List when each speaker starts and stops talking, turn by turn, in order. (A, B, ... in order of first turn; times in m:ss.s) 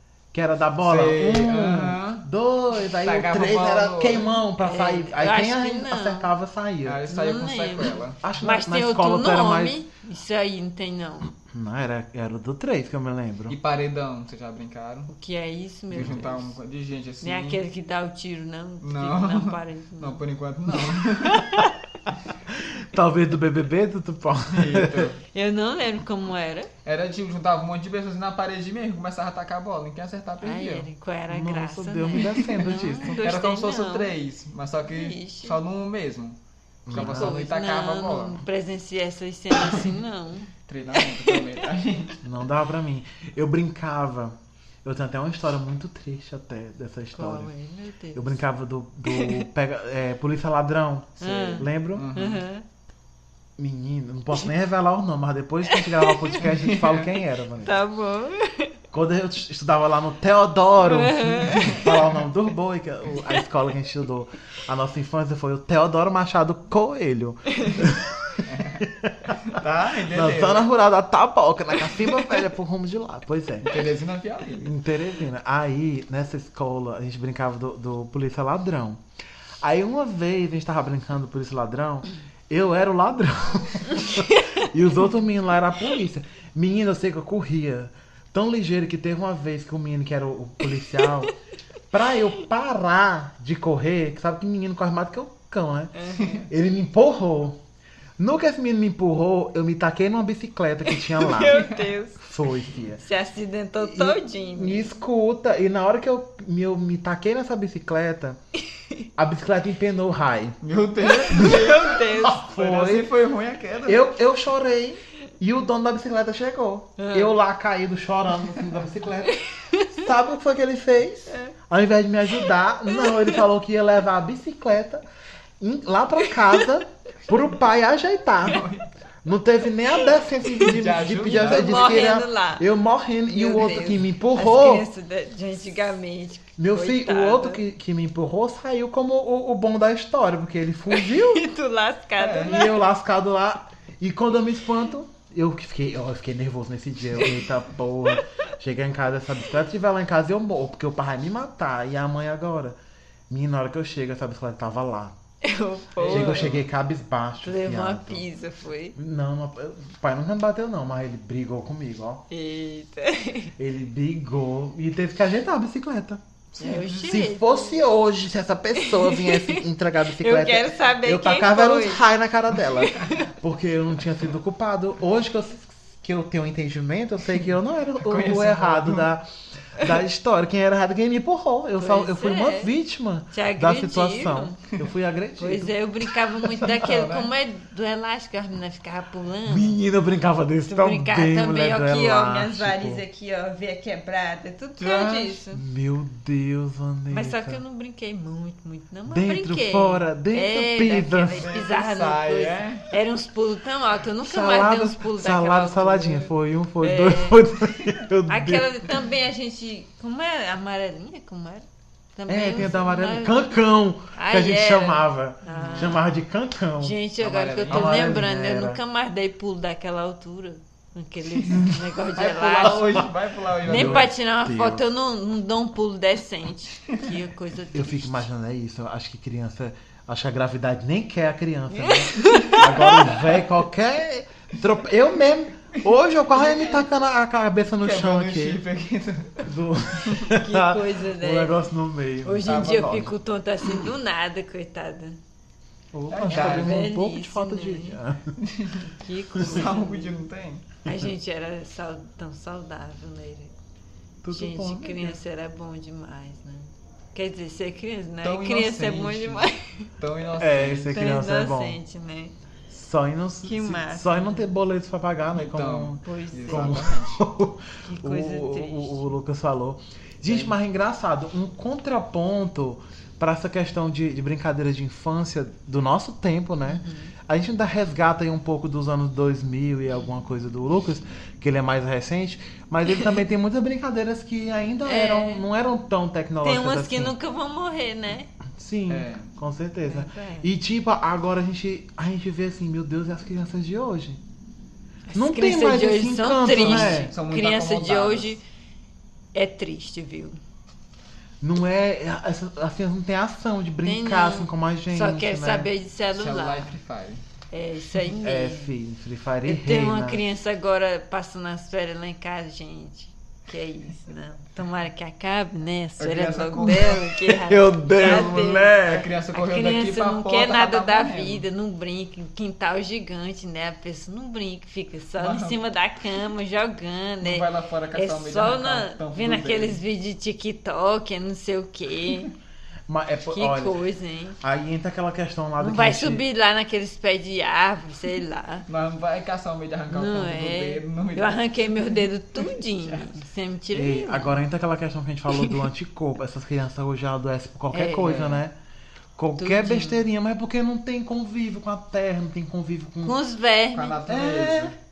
0:00.3-0:07.0 A
0:00.8-0:02.2 B
0:02.8-0:04.3 B
0:04.6-0:06.3 C
0:06.8-0:08.2 B
0:07.1-0:11.3 C
0:08.2-0:09.8 A
0:11.4-0:13.6 A
0:13.5-0:15.1 B
0:15.1-0:16.6 C
0:15.9-0:17.6 B
0:15.9-0:16.2 A
0:17.2-0:20.2 C
0:18.8-0:21.5 B
0:21.0-0:21.8 C
0:22.5-0:25.1 A
0:24.5-0:25.2 B
0:25.3-0:26.7 C
0:26.8-0:30.9 B
0:30.4-0:34.1 C
0:31.3-0:33.2 A
0:33.0-0:36.4 B
0:34.9-0:35.6 C
0:36.8-0:37.3 A
0:36.9-0:38.4 B
0:36.9-0:41.6 C
0:39.6-0:39.9 B
0:40.7-0:42.2 B
0:42.2-0:47.5 A
0:47.1-0:48.4 C
0:48.1-0:52.1 A
0:49.1-0:49.4 C
0:51.2-0:52.6 C
0:51.2-0:52.4 B
0:53.6-0:57.8 A
0:55.7-0:56.4 C
0:56.4-0:57.1 B
0:57.6-0:58.7 C
0:58.9-1:09.3 A
1:00.8-1:01.9 C
1:01.6-1:01.9 B
1:08.5-1:08.8 B
1:09.4-1:10.7 B
1:10.1-1:13.7 A
1:13.6-1:14.7 B
1:14.6-1:19.0 A
1:19.6-1:31.3 A
1:31.9-1:35.9 A
1:35.9-1:36.4 C
1:36.4-1:37.6 A
1:38.2-1:41.6 A
1:40.9-1:42.2 C
1:41.5-1:41.9 B
1:42.2-1:43.0 A
1:43.0-1:45.0 C
1:43.8-1:48.4 A
1:49.2-1:50.6 A
1:50.6-1:54.1 B
1:51.2-1:52.4 C
1:52.1-1:53.1 A
1:53.8-1:59.4 A
1:57.0-1:57.3 C
1:59.3-1:59.9 C
1:59.9-2:05.0 A
2:02.9-2:03.4 C
2:05.6-2:08.6 A
2:08.4-2:08.8 B
2:09.2-2:14.9 A
2:10.6-2:12.0 B
2:11.3-2:12.7 C
2:13.3-2:17.6 C
2:16.6-2:21.4 A
2:20.9-2:22.8 C
2:22.2-2:22.6 B
2:22.4-2:32.8 A
2:33.3-2:35.1 A
2:35.4-2:36.5 C
2:36.0-2:36.6 B
2:36.0-2:38.2 A
2:37.4-2:39.0 C
2:39.0-2:42.2 A
2:42.3-2:43.5 C
2:43.6-2:46.2 A
2:46.5-2:47.1 B
2:46.6-2:47.8 C
2:47.0-3:06.8 A
2:48.8-2:49.6 C
2:50.2-2:52.1 C
2:52.8-2:53.3 C
2:58.0-2:59.1 B
3:01.8-3:02.7 C
3:03.3-3:04.6 C
3:05.4-3:09.8 C
3:06.7-3:07.3 B
3:09.4-3:13.0 A
3:10.6-3:15.6 C
3:14.8-3:15.4 B
3:15.5-3:17.6 A
3:17.1-3:27.4 C
3:19.1-3:21.5 A
3:21.3-3:22.9 B
3:24.2-3:28.9 A
3:28.3-3:33.6 C
3:32.3-3:37.0 A
3:34.1-3:36.0 C
3:35.5-3:36.0 B
3:36.8-3:43.0 C
3:37.2-3:38.2 B
3:37.7-3:38.8 A
3:42.1-3:44.1 B
3:42.6-3:43.0 A
3:43.6-3:44.9 A
3:43.6-3:48.2 C
3:47.7-3:58.6 A
3:51.7-3:53.1 C
3:56.4-3:56.8 B
3:57.8-3:59.5 B
3:59.4-4:03.1 A
4:00.3-4:01.6 C
4:02.2-4:05.2 C
4:02.4-4:03.0 B
4:05.9-4:08.4 A
4:06.1-4:06.8 B
4:06.3-4:08.0 C
4:08.4-4:10.7 B
4:08.9-4:10.2 C
4:10.8-4:13.5 C
4:14.2-4:15.2 A
4:14.3-4:19.9 C
4:18.2-4:21.0 B
4:20.4-4:21.8 A
4:20.9-4:22.3 C
4:22.7-4:47.1 A
4:23.4-4:24.5 C
4:25.3-4:27.2 B
4:26.0-4:26.8 C
4:27.8-4:29.1 C
4:30.2-4:30.5 B
4:36.6-4:37.1 C
4:44.8-4:45.4 C
4:46.4-4:48.3 C
4:48.5-4:54.2 A
4:48.9-4:49.3 B
4:49.8-4:50.5 C
4:55.1-4:58.4 C
4:55.1-4:57.1 A
4:56.5-4:58.4 B
4:59.3-5:00.4 C
5:01.4-5:05.7 A
5:03.8-5:06.7 C
5:06.1-5:07.2 B
5:07.5-5:08.7 C
5:08.2-5:10.2 A
5:09.4-5:32.3 C
5:16.0-5:17.1 B
5:17.3-5:19.1 A
5:18.0-5:21.4 B
5:25.2-5:25.6 B
5:27.2-5:29.8 B
5:32.9-5:33.8 A
5:33.3-5:34.4 C
5:34.4-5:36.2 A
5:35.6-5:38.6 C
5:38.7-5:43.1 B
5:39.9-5:44.4 C
5:43.7-5:48.5 A
5:47.7-5:48.2 C
5:48.0-5:48.4 B
5:49.2-5:53.2 A
5:49.4-5:50.0 C
5:53.0-5:54.0 C
5:53.7-5:54.7 B
5:54.1-5:54.7 A